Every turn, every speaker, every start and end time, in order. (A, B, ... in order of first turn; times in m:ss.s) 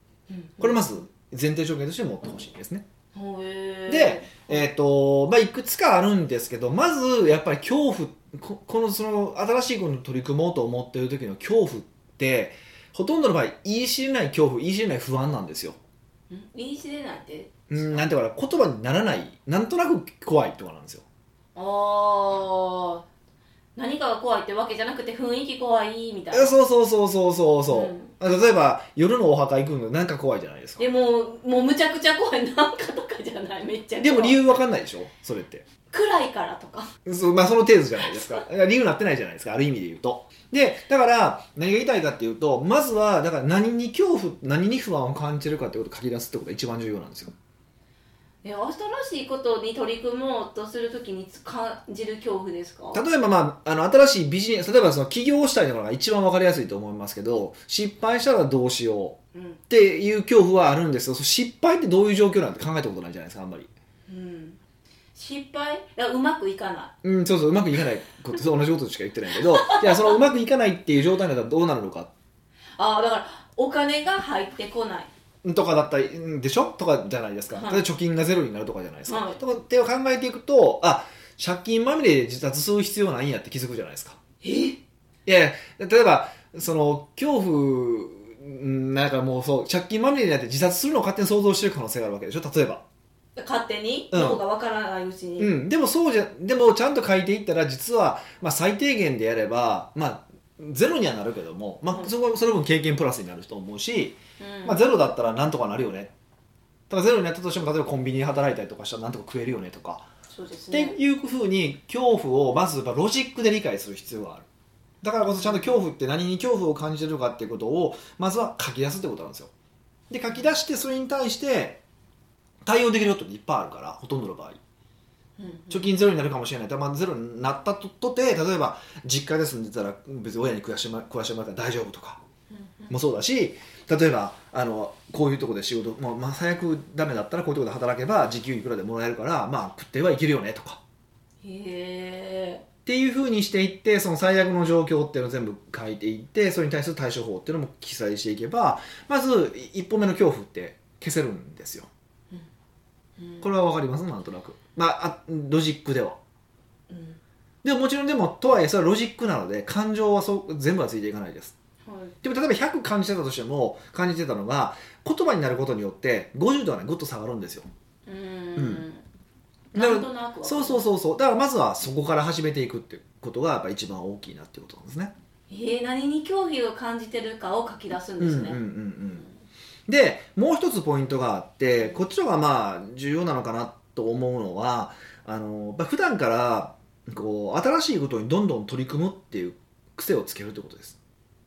0:00.3-0:01.0 A
0:00.6-0:02.8 B
0:03.1-0:04.6 A
0:03.9-0:15.8 B
0:16.3-0:18.0 A
0:17.7-0:21.0 B
0:21.5-0:23.0 A
0:23.8-0:26.5 A
0:26.3-0:30.8 B
0:27.7-0:28.1 A
0:30.8-0:34.4 A
0:34.0-0:35.6 B
0:35.9-0:36.9 A
0:37.0-0:47.3 B
0:48.4-0:53.0 A
0:52.9-0:59.2 B
0:59.3-0:59.6 A
0:59.7-1:03.7 B
1:04.1-1:04.6 A
1:05.1-1:06.9 A
1:07.0-1:12.1 B
1:09.5-1:10.1 A
1:12.8-1:15.1 A
1:15.4-1:24.2 B
1:17.5-1:17.8 A
1:19.1-1:19.4 A
1:24.4-1:24.8 A
1:25.2-1:32.8 B
1:33.4-1:35.6 A
1:34.1-1:34.4 B
1:35.4-1:46.1 B
1:44.4-1:44.8 A
1:46.9-1:50.1 B
1:50.3-1:51.0 A
1:50.7-1:54.4 B
1:55.0-1:59.5 B
1:55.2-1:55.6 A
2:00.1-2:01.8 B
2:02.6-2:04.6 B
2:05.4-2:05.8 A
2:05.7-2:12.2 B
2:12.5-2:12.9 A
2:12.9-2:20.8 B
2:21.4-2:22.6 A
2:22.8-2:31.9 B
2:33.2-2:33.5 A
2:33.4-2:36.2 B
2:36.9-2:37.2 A
2:37.6-2:41.5 B
2:41.8-2:42.1 A
2:42.2-2:47.7 B
2:48.0-2:49.0 A
2:48.6-2:48.8 B
2:49.7-2:50.8 A
2:49.7-2:55.1 B
2:55.5-2:58.6 A
2:58.2-2:59.2 B
2:59.9-3:11.0 B